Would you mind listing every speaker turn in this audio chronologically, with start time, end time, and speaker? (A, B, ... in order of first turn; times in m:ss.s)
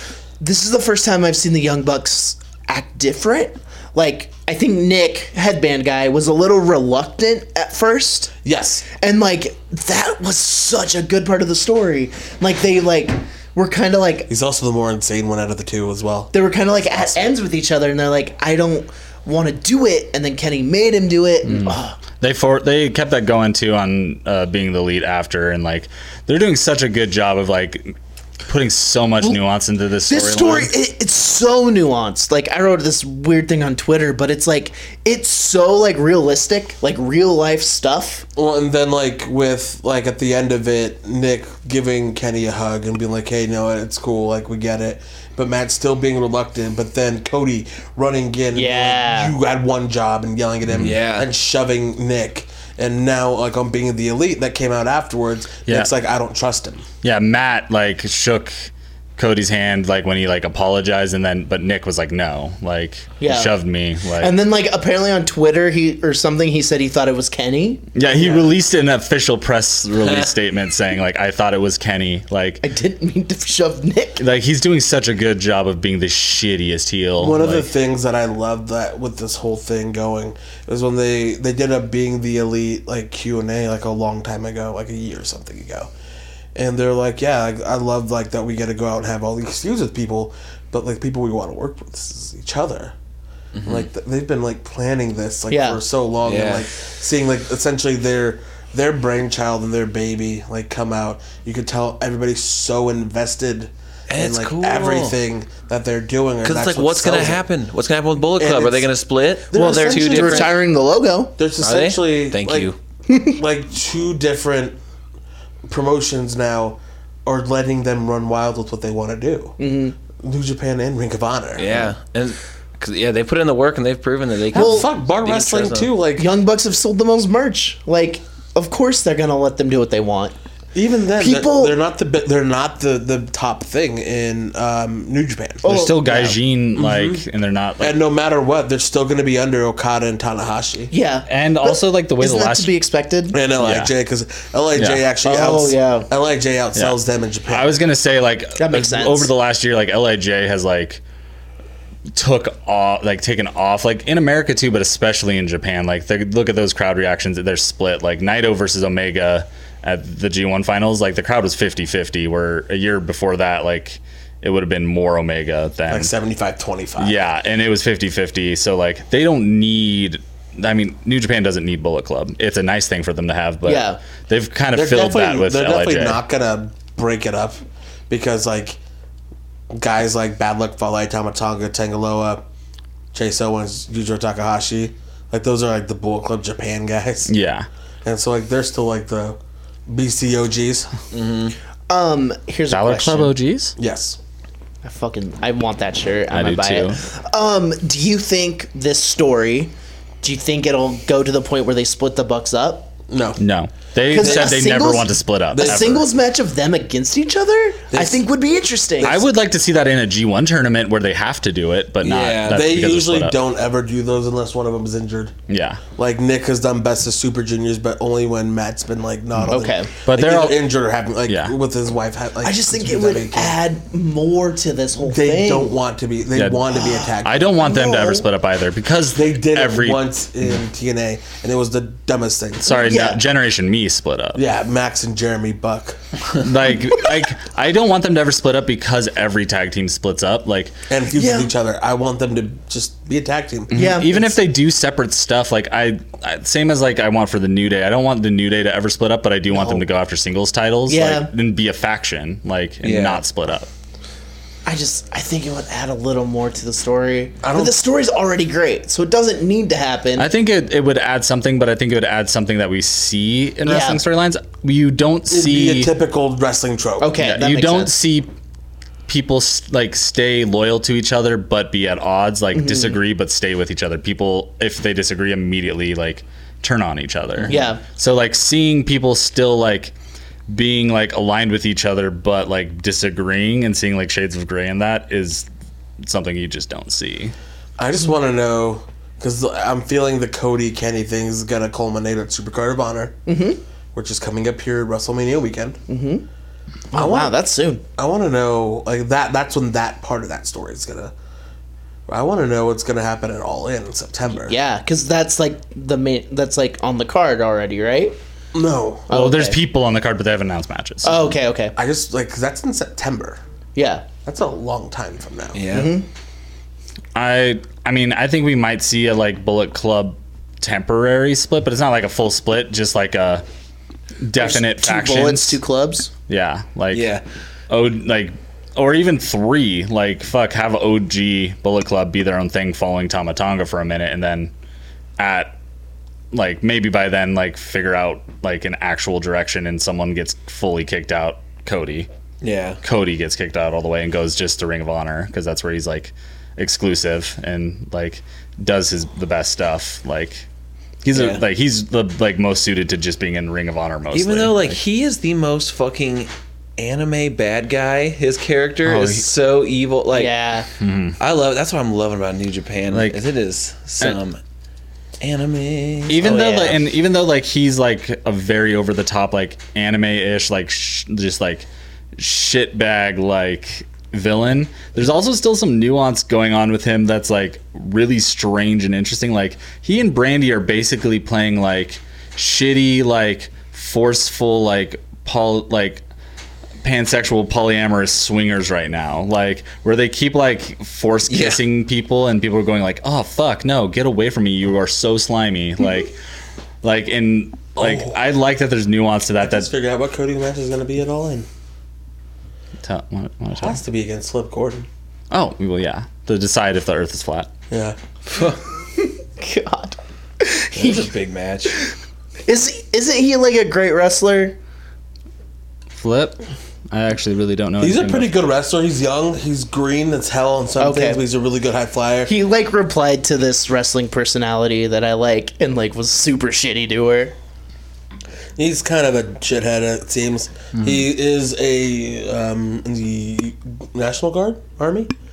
0:00.4-0:08.3 A
0:08.4-0:08.8 B
0:09.0-0:14.3 A
0:14.3-0:16.3 B
0:16.3-0:22.0 A
0:21.4-0:27.9 C
0:28.4-0:30.7 C
0:30.0-0:38.2 A
0:38.4-0:56.8 B
0:48.5-0:49.3 A
0:50.6-0:51.0 C
0:50.8-0:51.3 D
0:55.6-0:55.9 C
0:57.0-1:04.3 C
1:03.2-1:03.6 A
1:04.2-1:08.4 A
1:07.9-1:12.6 C
1:10.0-1:10.3 D
1:12.6-1:14.2 A
1:14.2-1:17.7 C
1:17.2-1:25.9 B
1:26.5-1:32.9 B
1:33.5-1:33.9 D
1:33.6-1:47.5 B
1:35.5-1:35.8 A
1:36.2-1:36.7 D
1:44.1-1:45.2 D
1:46.4-1:50.6 D
1:48.4-1:48.9 B
1:49.5-1:50.6 B
1:49.5-1:51.3 A
1:51.4-1:52.7 B
1:51.6-1:52.8 D
1:53.1-1:53.4 A
1:53.2-1:54.8 B
1:55.7-1:59.6 B
1:59.6-1:59.9 A
2:00.2-2:01.9 B
2:01.6-2:05.9 D
2:04.5-2:06.3 B
2:04.5-2:04.9 A
2:06.2-2:10.4 A
2:10.7-2:15.9 B
2:11.2-2:11.8 A
2:15.6-2:16.4 A
2:15.6-2:18.0 C
2:16.8-2:17.2 B
2:17.8-2:20.9 B
2:20.9-2:23.4 A
2:21.3-2:22.7 C
2:23.3-2:27.7 B
2:23.6-2:23.9 C
2:24.8-2:25.0 C
2:25.2-2:26.1 A
2:26.7-2:31.0 C
2:28.6-2:29.3 A
2:32.1-2:46.1 C
2:45.9-2:47.1 B
2:47.0-2:56.2 C
2:53.6-2:54.0 A
2:54.7-2:58.8 B
2:59.7-3:02.4 B
3:03.1-3:07.3 B
3:07.2-3:07.7 C
3:08.0-3:10.9 B
3:11.1-3:11.5 D
3:11.9-3:13.3 A
3:12.7-3:13.7 C
3:13.8-3:14.2 B
3:14.8-3:22.9 A
3:16.3-3:17.0 C
3:23.1-3:23.4 B
3:23.4-3:26.0 C
3:24.1-3:29.2 A
3:24.2-3:25.0 B
3:25.5-3:26.0 B
3:27.9-3:28.2 B
3:29.0-3:33.4 C
3:32.0-3:32.6 D
3:32.5-3:35.3 B
3:35.5-3:35.8 C
3:36.0-3:43.6 B
3:39.5-3:39.9 A
3:40.1-3:40.7 C
3:41.3-3:41.5 C
3:42.4-3:45.7 A
3:45.0-3:47.5 B
3:46.3-3:50.0 C
3:47.6-3:48.2 A
3:49.1-3:52.8 B
3:52.6-3:54.4 C
3:52.7-3:53.2 A
3:54.3-3:56.0 B
3:56.4-4:00.8 C
4:00.9-4:04.3 B
4:01.1-4:01.5 A
4:03.7-4:13.7 C
4:03.7-4:04.1 A
4:09.5-4:09.9 A
4:10.9-4:11.3 A
4:12.8-4:13.2 D
4:14.6-4:20.3 A
4:17.4-4:17.8 B
4:20.2-4:25.9 C
4:23.6-4:24.0 A
4:25.3-4:27.2 B
4:27.0-4:27.9 A
4:27.1-4:28.3 C
4:29.1-4:39.9 C
4:32.5-4:33.0 A
4:37.5-4:37.8 A
4:40.5-4:45.5 C
4:46.0-4:47.3 C
4:47.8-4:53.2 B
4:53.2-4:53.6 A
4:53.9-4:55.8 B
4:55.9-4:56.2 A
4:56.9-4:57.8 A
4:56.9-4:57.3 B
4:58.0-5:01.1 B
5:02.1-5:04.6 B
5:04.4-5:08.2 A
5:08.5-5:09.1 B
5:09.1-5:09.6 A
5:09.1-5:11.2 C
5:11.0-5:11.7 A
5:11.7-5:13.4 B
5:13.7-5:14.0 A
5:14.2-5:15.6 B
5:15.5-5:15.9 D
5:15.7-5:16.0 A
5:17.1-5:23.4 C
5:24.2-5:25.6 C
5:24.4-5:26.1 A
5:26.3-5:27.1 C
5:26.9-5:27.2 D
5:27.7-5:34.5 C
5:35.2-5:35.5 C
5:36.3-5:42.1 C
5:42.4-5:42.8 D
5:42.8-5:50.4 C
5:51.0-5:54.8 C
5:51.1-5:51.4 D
5:54.1-6:00.3 D
5:58.8-5:59.3 C
6:00.1-6:00.7 A
6:00.8-6:01.2 C
6:01.2-6:04.4 D
6:02.9-6:03.2 C
6:05.2-6:06.8 D
6:06.1-6:26.0 C
6:26.8-6:36.2 C
6:31.3-6:31.6 D
6:36.8-6:39.7 C
6:37.8-6:38.2 B
6:39.4-6:41.5 B
6:42.8-6:43.8 C
6:43.6-6:44.9 B
6:45.3-6:47.5 C
6:47.7-6:48.0 B
6:48.3-6:48.6 D
6:49.0-6:51.1 A
6:50.8-6:51.8 D
6:52.5-6:54.6 A
6:55.9-6:58.4 C
6:57.8-7:02.3 B
7:00.8-7:01.2 A
7:02.2-7:07.3 A
7:08.6-7:15.1 B